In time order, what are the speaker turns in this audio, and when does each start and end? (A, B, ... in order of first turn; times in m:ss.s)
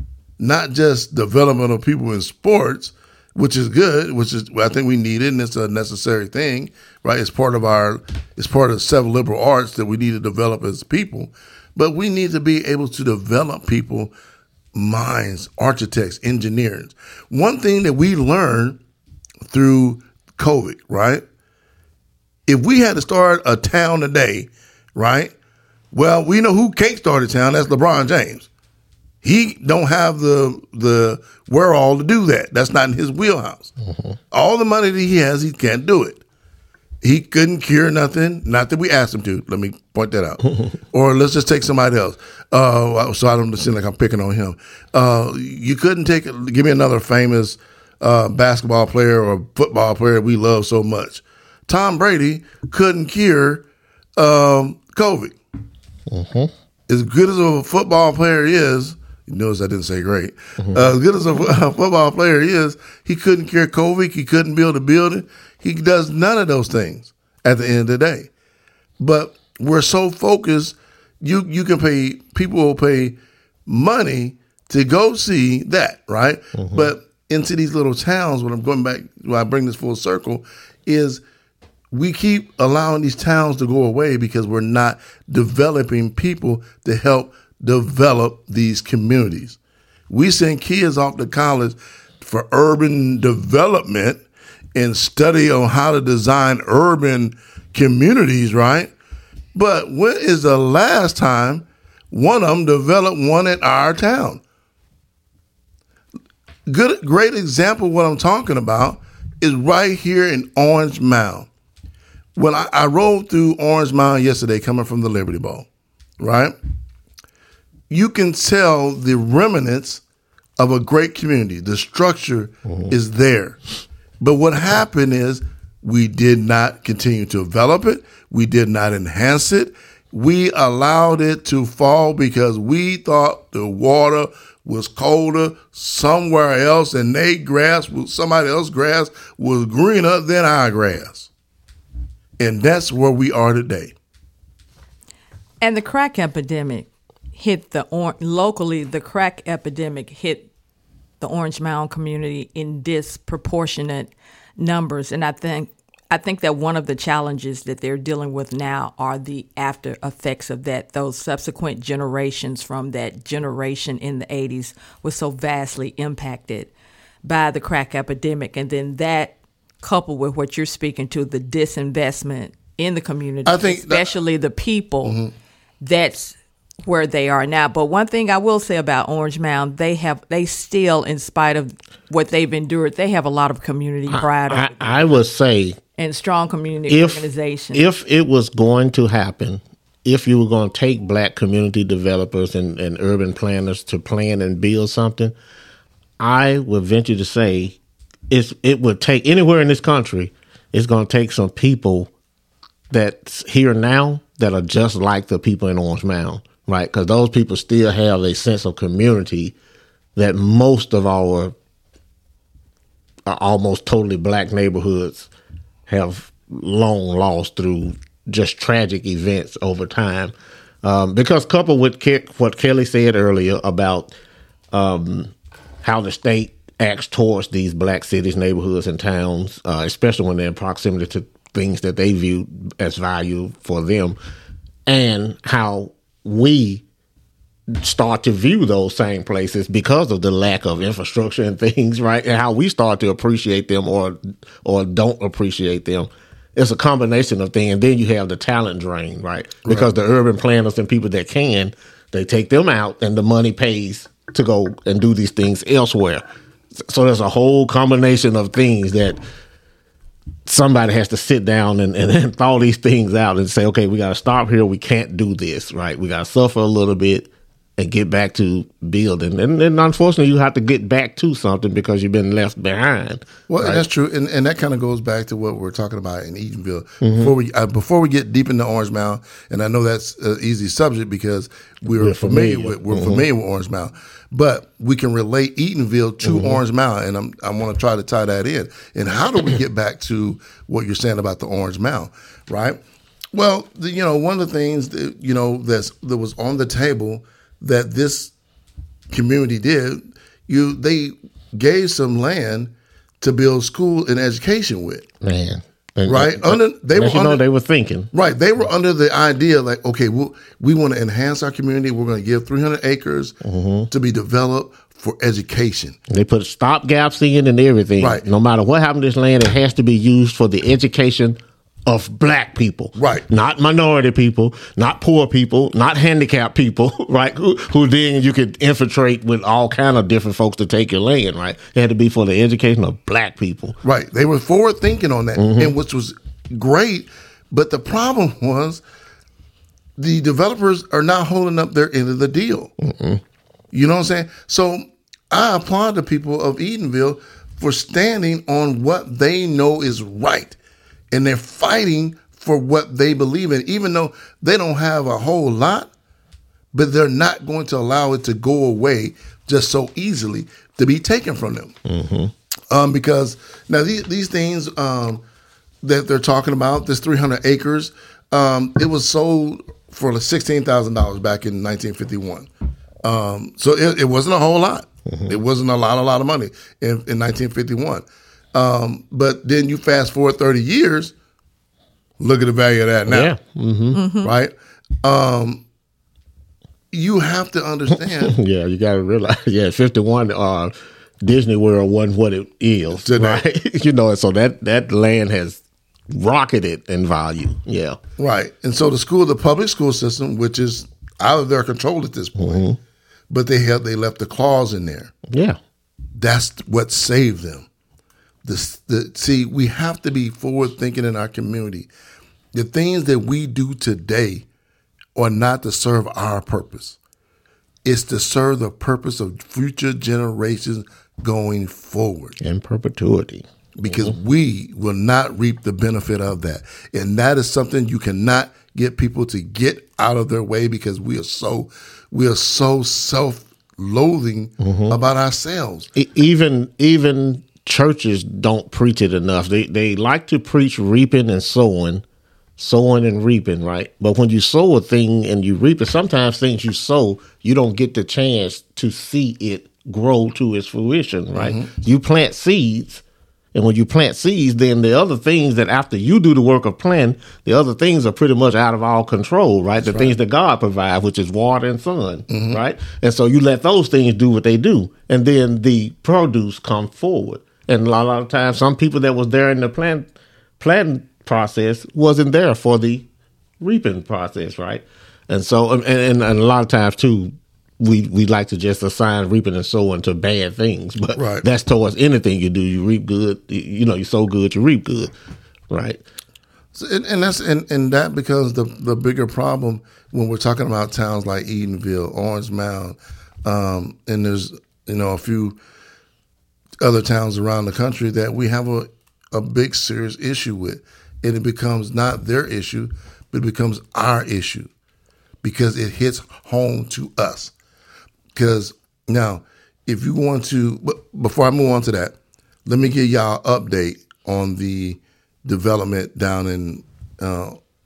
0:00.4-0:14.1 A
0:14.7-0:18.8 A
0:19.5-0:21.2 A
0:22.5-0:25.3 A
0:25.9-0:28.5 A
0:29.2-0:33.7 A
0:33.8-0:34.2 B
0:34.3-0:36.2 A
0:37.0-0:53.6 A
0:54.2-0:55.3 A
0:56.1-0:56.5 B
0:56.9-1:08.3 A
1:00.6-1:00.9 B
1:09.0-1:21.2 A
1:16.6-1:16.9 B
1:21.9-1:29.6 A
1:30.1-1:34.2 A
1:34.7-1:38.9 A
1:39.5-1:44.4 A
1:46.7-1:51.5 A
1:52.4-1:55.7 A
1:56.2-1:56.5 A
1:57.9-2:00.0 A
2:00.6-2:03.6 A
2:02.6-2:02.9 B
2:04.2-2:21.3 A
2:22.4-2:23.9 A
2:25.6-2:30.5 C
2:31.2-2:46.7 C
2:47.2-2:55.2 C
2:53.4-2:54.1 A
2:55.0-2:55.3 A
2:55.8-3:05.2 C
3:04.1-3:05.8 B
3:06.0-3:07.8 C
3:06.9-3:15.3 B
3:16.2-3:17.8 B
3:18.3-3:22.1 B
3:22.9-3:29.5 B
3:30.2-3:31.5 B
3:33.2-3:35.3 B
3:35.9-3:44.1 B
3:44.7-3:54.2 B
3:54.9-3:56.8 B
3:57.7-4:16.2 B
4:09.6-4:09.9 A
4:16.8-4:19.2 B
4:20.4-4:33.8 B
4:33.5-4:52.8 A
4:37.0-4:37.3 B
4:42.0-4:43.2 B
4:46.2-4:46.6 B
4:53.3-4:58.3 A
4:59.1-5:05.1 A
5:05.2-5:08.1 B
5:06.0-5:07.4 A
5:08.1-5:13.3 A
5:13.4-5:13.9 B
5:13.9-5:16.0 A
5:16.1-5:33.8 B
5:18.0-5:18.2 A
5:23.0-5:23.2 A
5:33.8-5:38.8 A
5:35.4-5:35.7 B
5:40.0-5:42.7 A
5:42.8-5:43.2 B
5:43.7-5:50.6 A
5:51.1-5:55.9 A
5:56.7-6:01.7 A
6:01.8-6:02.3 B
6:02.7-6:05.2 A
6:05.8-6:12.5 A
6:13.0-6:21.1 A
6:15.1-6:15.4 B
6:22.2-6:23.3 A
6:23.1-6:24.0 B
6:23.9-6:24.3 C
6:24.2-6:25.6 A
6:26.9-6:28.4 A
6:27.9-6:38.0 B
6:32.9-6:33.4 A
6:38.2-6:42.7 A
6:42.4-6:42.8 B
6:43.3-6:45.1 A
6:45.3-6:45.6 B
6:46.1-6:47.7 A
6:48.4-6:51.9 A
6:52.5-6:54.4 A
6:55.1-6:57.0 A
6:57.8-7:02.4 A
7:02.4-7:04.1 B
7:03.8-7:15.9 A
7:14.6-7:15.0 B
7:15.9-7:22.0 B
7:22.6-7:33.0 B
7:31.3-7:31.7 A
7:33.5-7:50.1 B
7:39.8-7:40.1 A
7:42.3-7:42.6 A
7:50.6-7:53.0 B
7:53.6-8:05.1 B
8:01.1-8:01.4 A
8:05.7-8:06.0 B
8:06.7-8:15.6 A
8:16.8-8:24.7 A
8:25.4-8:27.5 A
8:28.3-8:32.1 A
8:32.6-8:37.6 A